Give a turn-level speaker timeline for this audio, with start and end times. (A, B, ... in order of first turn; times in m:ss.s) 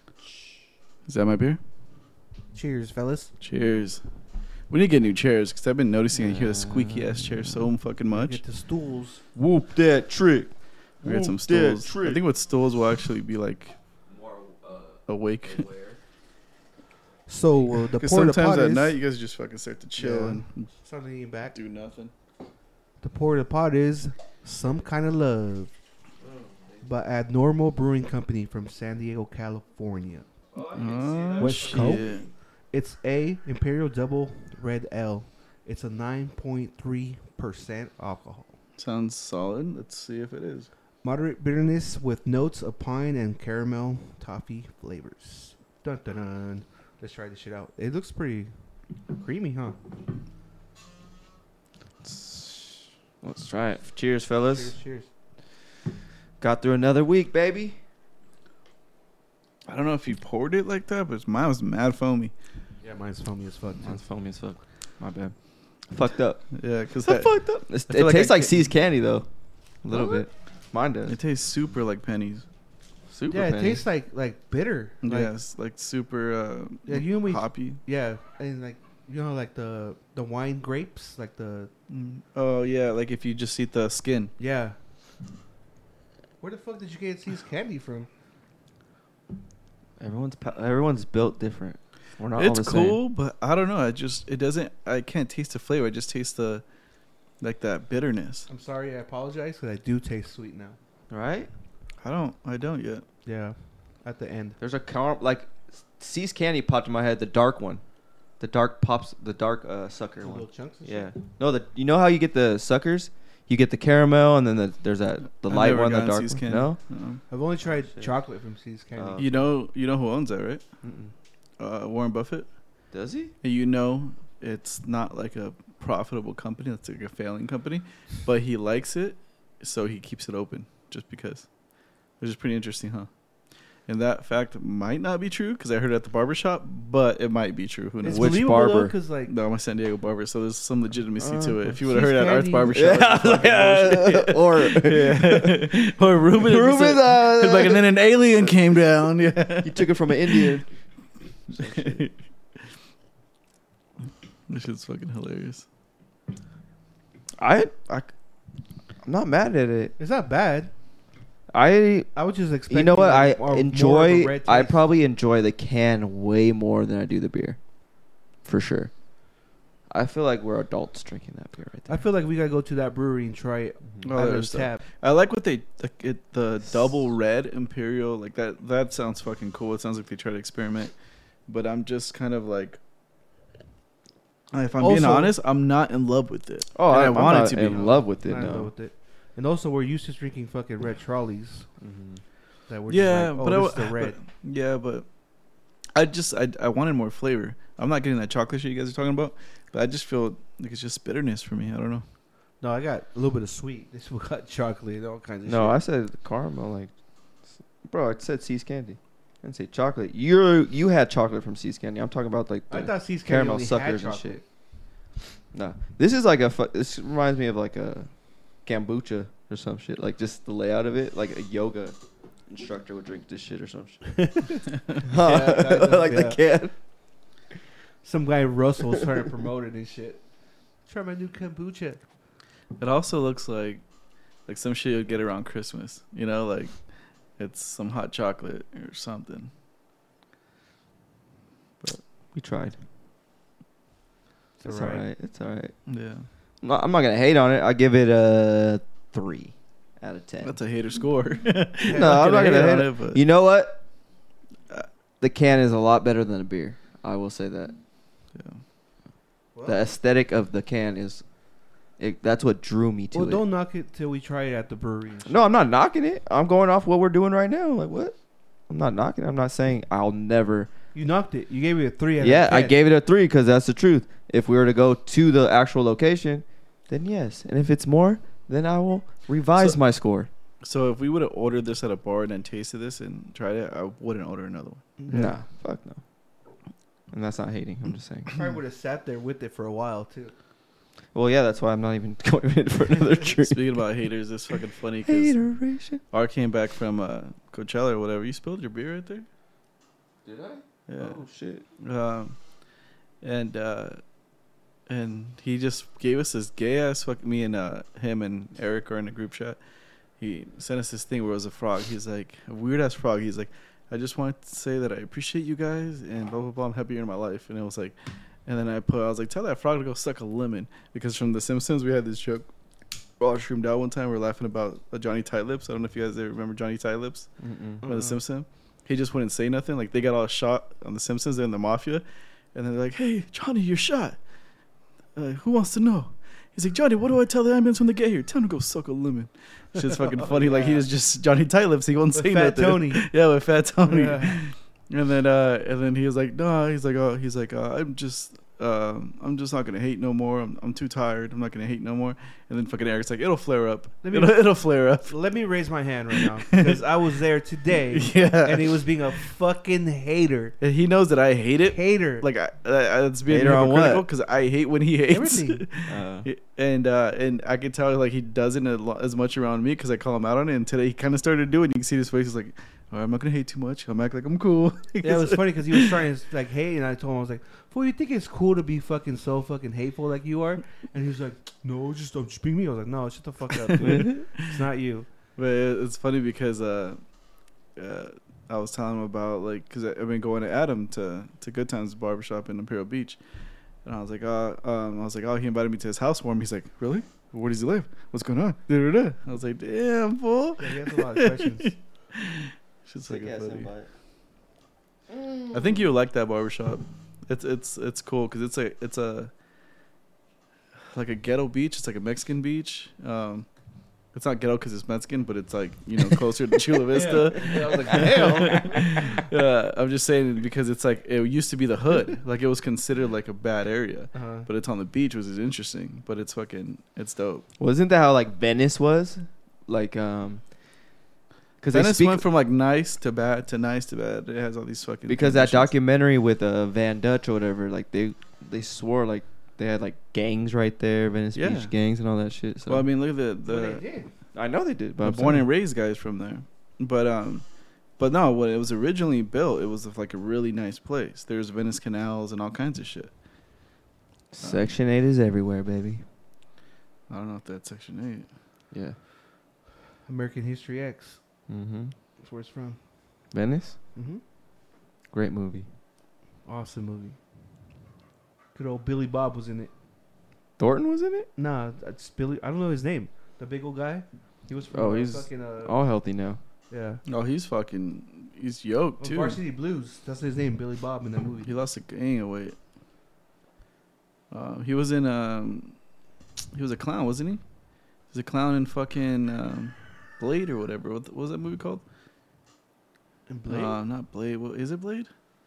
0:01.1-0:01.6 A
0:02.5-0:03.3 B
0:03.4-0:04.0 A
0:04.7-0:08.4 A
0:06.2-0:07.2 C
0:08.1-0:09.2 B
0:09.4-0:09.7 A
0:09.6-0:10.5 C
0:11.0-0:12.2 C
0:11.0-0:13.8 A
0:14.2-0:15.0 C
0:15.1-0:15.7 A
0:15.5-0:16.0 C
0:17.3-0:19.0 B
0:17.9-0:20.7 A
0:20.0-0:21.6 B
0:21.5-0:22.1 A
0:23.0-0:25.7 B
0:26.2-0:26.8 C
0:26.8-0:30.3 B
0:30.5-0:32.3 C
0:30.7-0:32.3 A
0:31.4-0:32.1 B
0:32.7-0:38.5 B
0:38.8-0:40.7 A
0:41.0-0:48.5 B
0:49.1-0:49.8 B
0:52.0-0:54.7 C
0:54.4-0:55.1 B
0:56.4-0:57.8 C
0:59.7-1:02.3 A
1:02.8-1:04.0 B
1:03.8-1:05.3 C
1:05.9-1:06.5 C
1:06.5-1:07.4 A
1:07.0-1:09.3 C
1:07.9-1:08.6 A
1:09.8-1:11.2 C
1:11.1-1:12.5 A
1:13.1-1:13.5 A
1:13.3-1:15.3 B
1:13.3-1:13.8 C
1:15.0-1:17.8 A
1:16.9-1:21.7 B
1:21.9-1:24.3 A
1:24.4-1:24.8 B
1:26.4-1:28.1 B
1:30.0-1:33.0 C
1:32.4-1:36.6 A
1:37.4-1:38.5 A
1:38.5-1:40.8 B
1:41.1-1:41.5 C
1:42.0-1:43.0 A
1:43.2-1:44.6 B
1:44.6-1:47.8 C
1:48.4-1:56.8 C
1:50.2-1:51.1 B
1:55.5-1:57.2 A
1:57.3-1:59.4 B
1:59.0-1:59.5 C
1:59.2-2:00.6 A
2:00.8-2:01.1 C
2:01.6-2:02.5 A
2:02.9-2:03.3 C
2:03.4-2:11.5 A
2:12.2-2:13.1 A
2:13.9-2:18.4 A
2:18.0-2:19.3 B
2:18.1-2:18.9 C
2:19.3-2:30.6 A
2:21.2-2:21.6 C
2:21.7-2:22.8 B
2:22.7-2:25.8 C
2:26.4-2:27.8 C
2:28.4-2:28.8 C
2:29.6-2:30.7 C
2:31.5-2:32.0 C
2:31.6-2:32.1 A
2:34.5-2:35.6 A
2:37.4-2:38.1 C
2:39.0-2:40.0 C
2:40.0-2:40.7 B
2:41.5-2:42.1 C
2:42.2-2:44.8 B
2:42.7-2:47.6 C
2:48.4-2:48.9 C
2:49.9-2:51.9 C
2:51.9-2:54.8 B
2:54.0-3:00.9 A
3:01.5-3:02.8 A
3:04.5-3:07.9 A
3:04.8-3:05.4 B
3:06.8-3:08.7 C
3:07.2-3:11.7 B
3:11.8-3:12.2 C
3:12.7-3:14.2 B
3:12.9-3:15.1 A
3:15.9-3:22.0 A
3:22.6-3:25.8 B
3:25.5-3:26.9 C
3:27.8-3:34.4 C
3:32.7-3:34.4 B
3:35.5-3:38.1 C
3:38.6-3:42.0 C
3:42.5-3:44.0 C
3:44.2-3:46.4 B
3:45.0-3:46.7 C
3:48.0-3:50.2 B
3:50.9-3:52.0 B
3:52.8-3:53.8 A
3:54.5-3:56.8 A
3:57.4-3:59.5 A
4:01.8-4:02.8 C
4:04.6-4:05.7 C
4:04.6-4:05.0 B
4:05.9-4:06.3 A
4:06.6-4:10.5 C
4:10.4-4:13.2 A
4:11.9-4:12.8 B
4:11.9-4:13.8 C
4:15.2-4:17.8 C
4:18.4-4:18.6 A
4:19.6-4:19.9 B
4:19.7-4:21.2 C
4:22.0-4:23.4 C
4:23.1-4:25.4 B
4:25.3-4:28.2 C
4:28.7-4:30.7 C
4:31.0-4:32.8 B
4:32.2-4:40.3 C
4:40.6-4:44.8 A
4:45.0-4:45.4 B
4:45.1-4:46.0 C
4:47.1-4:48.3 C
4:48.3-4:50.3 B
4:51.1-4:53.8 C
4:53.4-4:55.4 A
4:55.0-4:56.0 C
4:56.1-4:59.3 A
5:00.2-5:01.6 C
5:00.9-5:01.2 A
5:01.8-5:02.4 A
5:03.2-5:04.0 A
5:04.9-5:09.6 A
5:10.2-5:22.5 A
5:23.2-5:27.3 A
5:27.4-5:27.8 C
5:27.8-5:28.2 B
5:27.8-5:34.2 A
5:35.2-5:55.1 A
5:40.2-5:40.9 B
5:42.2-5:43.1 B
5:43.8-5:44.4 B
5:54.0-6:00.6 B
5:56.2-5:56.8 A
5:57.9-5:59.3 A
6:00.6-6:15.9 A
6:01.7-6:02.3 B
6:03.3-6:04.1 C
6:05.1-6:05.7 B
6:05.9-6:06.3 C
6:15.0-6:25.1 B
6:23.7-6:24.4 A
6:25.4-6:27.0 A
6:27.8-6:33.2 A
6:33.8-6:43.7 A
6:40.6-6:41.8 B
6:43.1-6:43.9 C
6:45.1-6:45.7 C
6:45.5-6:49.3 A
6:50.9-6:53.5 A
6:54.1-7:07.4 A
6:56.9-6:59.2 B
6:57.7-6:58.6 C
7:04.1-7:04.5 B
7:07.6-7:10.4 C
7:11.6-7:12.2 C
7:11.7-7:15.7 A
7:15.1-7:22.9 C
7:21.4-7:21.7 A
7:22.7-7:23.8 A
7:23.5-7:24.1 B
7:24.3-7:25.4 C
7:25.0-7:27.4 A
7:28.0-7:33.1 A
7:34.3-7:36.0 C
7:34.4-7:34.7 A
7:37.1-7:38.3 A
7:38.7-7:39.0 C
7:40.1-7:41.2 B
7:41.5-7:41.9 C
7:42.2-7:42.8 B
7:43.3-7:43.8 C
7:44.0-7:44.2 B
7:45.1-7:45.7 C
7:46.5-7:47.2 B
7:48.6-7:49.7 B
7:50.6-7:51.3 C
7:51.4-7:55.7 B
7:54.7-7:56.4 C
7:56.7-7:57.0 B
7:57.1-7:59.4 A
7:59.0-8:01.5 B
8:01.4-8:02.6 A
8:04.3-8:05.8 A
8:06.5-8:07.4 A
8:08.1-8:11.8 A
8:13.3-8:13.8 B
8:13.5-8:15.1 A